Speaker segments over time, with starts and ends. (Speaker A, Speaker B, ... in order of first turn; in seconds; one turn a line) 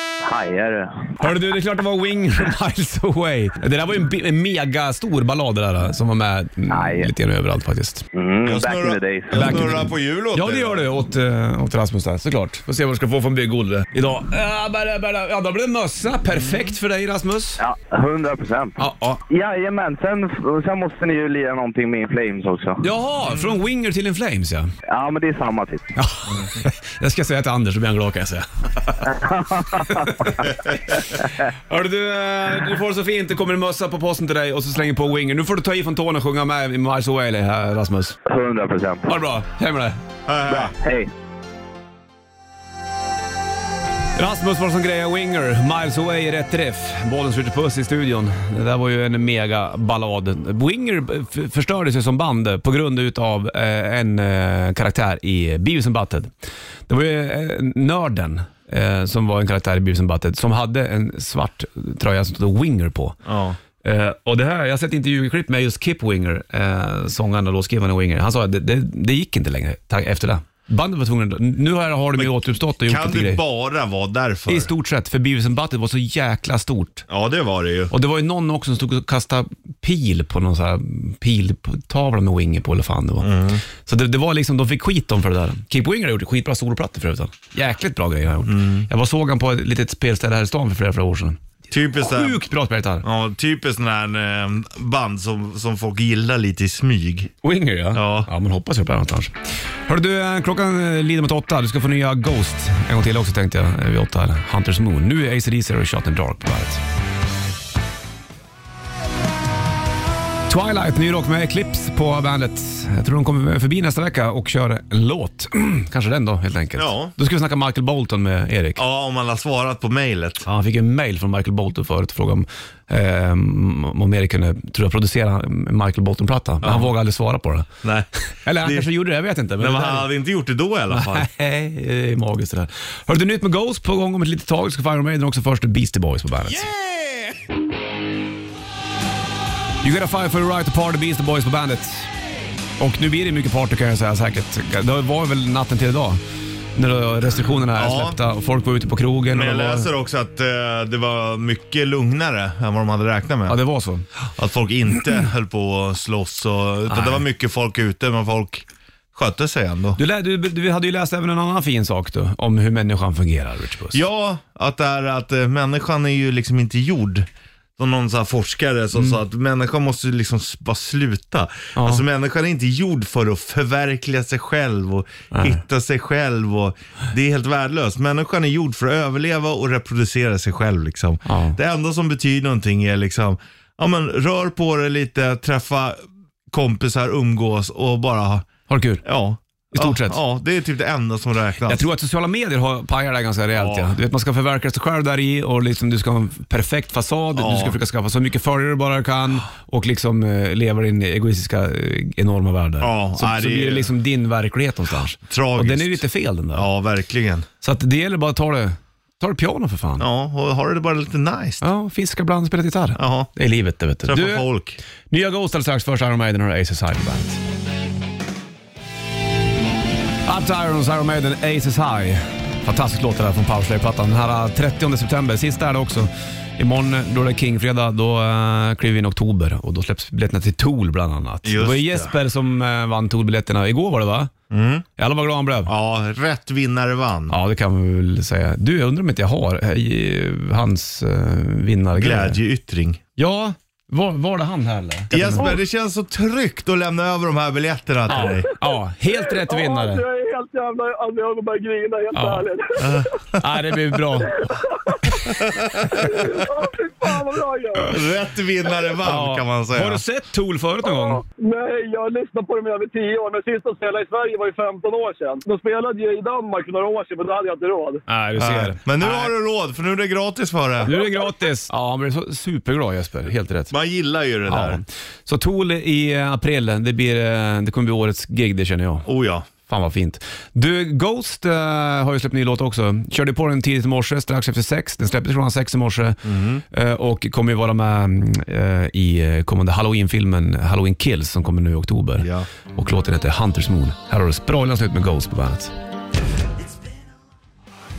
Speaker A: 0.2-1.1
Speaker B: 1.2-8.0
Speaker A: 6.7-7.1
Speaker A: 8.1-9.6
Speaker C: 8.4-10.9
Speaker B: 9.3-17.6
Speaker C: 16.4-16.6
Speaker A: 17.6-22.8
Speaker B: 18.8-19.2
Speaker B: 22.8-24.7
Speaker C: 23.2-23.5
Speaker A: 24.9-25.9
Speaker B: 25.9-29.1
Speaker A: 29.0-30.5
Speaker B: 29.7-38.2
Speaker A: 38.3-39.1
Speaker B: 39.1-40.0
Speaker C: 40.2-40.7
Speaker A: 40.5-41.1
Speaker B: 44.1-56.3
Speaker B: 56.9-63.2
Speaker C: 63.2-63.6
Speaker B: 63.8-73.4
Speaker C: 72.2-74.7
Speaker B: 74.5-77.0
Speaker C: 77.1-77.9
Speaker B: 77.9-93.0
Speaker C: 83.2-83.6
Speaker C: 88.5-88.9
Speaker C: 91.7-92.4
Speaker C: 93.0-97.3
Speaker B: 97.4-99.3
Speaker C: 97.9-98.3
Speaker B: 99.9-106.8
Speaker B: 110.5-118.8
Speaker C: 116.8-117.1
Speaker C: 118.8-120.5
Speaker B: 120.4-127.7
Speaker C: 126.6-126.9
Speaker C: 127.8-128.9
Speaker B: 128.4-130.1
Speaker C: 129.6-131.3
Speaker B: 130.9-136.7
Speaker C: 136.6-137.4
Speaker B: 139.8-142.1
Speaker B: 142.8-146.2
Speaker B: 146.7-149.9
Speaker C: 147.7-148.2
Speaker C: 149.3-153.6
Speaker B: 153.5-154.1
Speaker C: 154.3-160.0
Speaker B: 156.9-157.2
Speaker B: 160.0-164.0
Speaker C: 163.9-188.5
Speaker B: 171.8-172.0
Speaker B: 175.3-175.6
Speaker B: 181.2-181.6
Speaker B: 188.7-189.0
Speaker C: 189.0-191.8
Speaker B: 189.7-190.2
Speaker B: 191.7-206.7
Speaker C: 193.5-193.9
Speaker C: 197.3-197.8
Speaker C: 202.8-203.9
Speaker C: 205.3-207.5
Speaker B: 207.6-210.1
Speaker C: 210.0-211.6
Speaker B: 211.6-214.5
Speaker C: 212.9-213.3
Speaker C: 214.0-214.8
Speaker B: 215.1-217.4
Speaker B: 220.2-234.3
Speaker C: 231.4-232.2
Speaker C: 234.5-234.8
Speaker B: 235.0-235.7
Speaker C: 235.7-237.3
Speaker B: 237.3-242.4
Speaker C: 241.9-243.0
Speaker B: 243.2-245.6
Speaker C: 245.1-248.5
Speaker B: 248.1-250.0
Speaker D: 249.1-253.1
Speaker B: 252.1-252.4
Speaker C: 252.8-253.4
Speaker B: 253.3-254.5
Speaker D: 254.2-258.0
Speaker B: 255.0-256.2
Speaker C: 255.3-256.3
Speaker C: 257.9-260.0
Speaker B: 259.0-261.2
Speaker D: 260.9-268.0
Speaker B: 268.1-269.3
Speaker C: 268.4-271.0
Speaker B: 270.8-273.7
Speaker C: 273.7-274.8
Speaker B: 274.5-279.1
Speaker C: 279.1-279.5
Speaker B: 279.6-295.7
Speaker C: 286.2-286.6
Speaker C: 292.2-292.5